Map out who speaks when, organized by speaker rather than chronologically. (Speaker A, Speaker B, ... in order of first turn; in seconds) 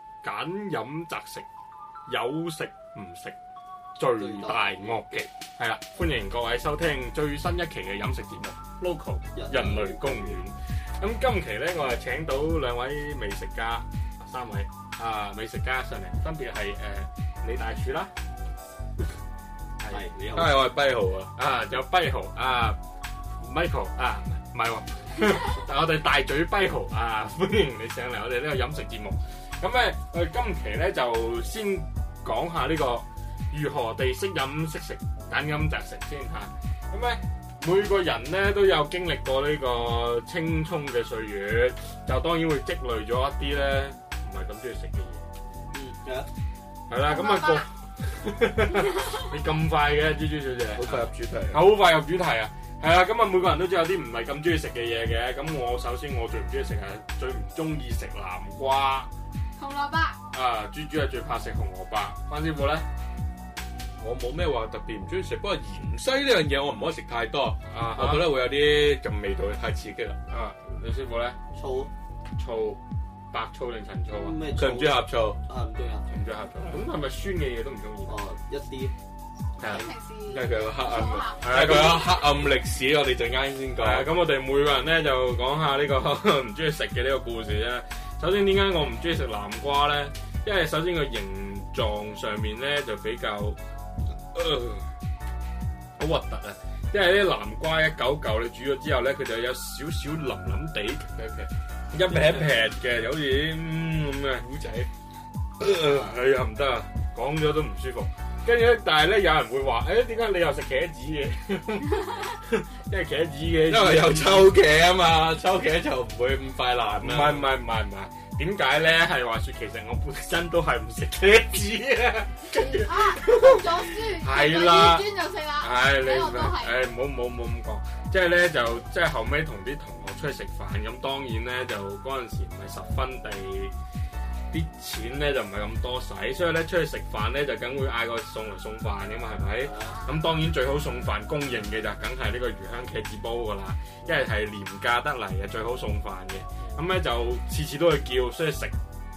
Speaker A: 0.2-1.5, 2.1-3.4, 4.0-18.1, 21.4-22.8, 23.4-45.2, 46.9-59.1, 60.3-62.9, 67.7-68.3, 70.3-71.4, 72.4-72.8, 73.3-74.4, 76.1-78.2, 79.6-79.8, 81.4-82.0, 83.8-93.6, 94.3-94.9, 96.0-101.1, 101.9-104.5, 105.6-114.5, 117.0-125.1, 125.6-133.7, 134.5-148.7
Speaker B: 4.2-5.3, 9.3-10.4, 19.9-20.6, 45.7-46.3, 71.5-71.9, 74.1-76.1, 78.1-78.9, 105.8-106.2, 139.6-140.1
Speaker C: 20.3-21.3, 50.7-51.7, 64.0-70.2, 74.5-75.4, 80.3-84.1, 101.2-101.5, 102.1-102.6, 104.3-104.9, 113.7-117.5
Speaker D: 47.1-47.7, 59.6-60.2, 79.6-81.8, 122.5-126.8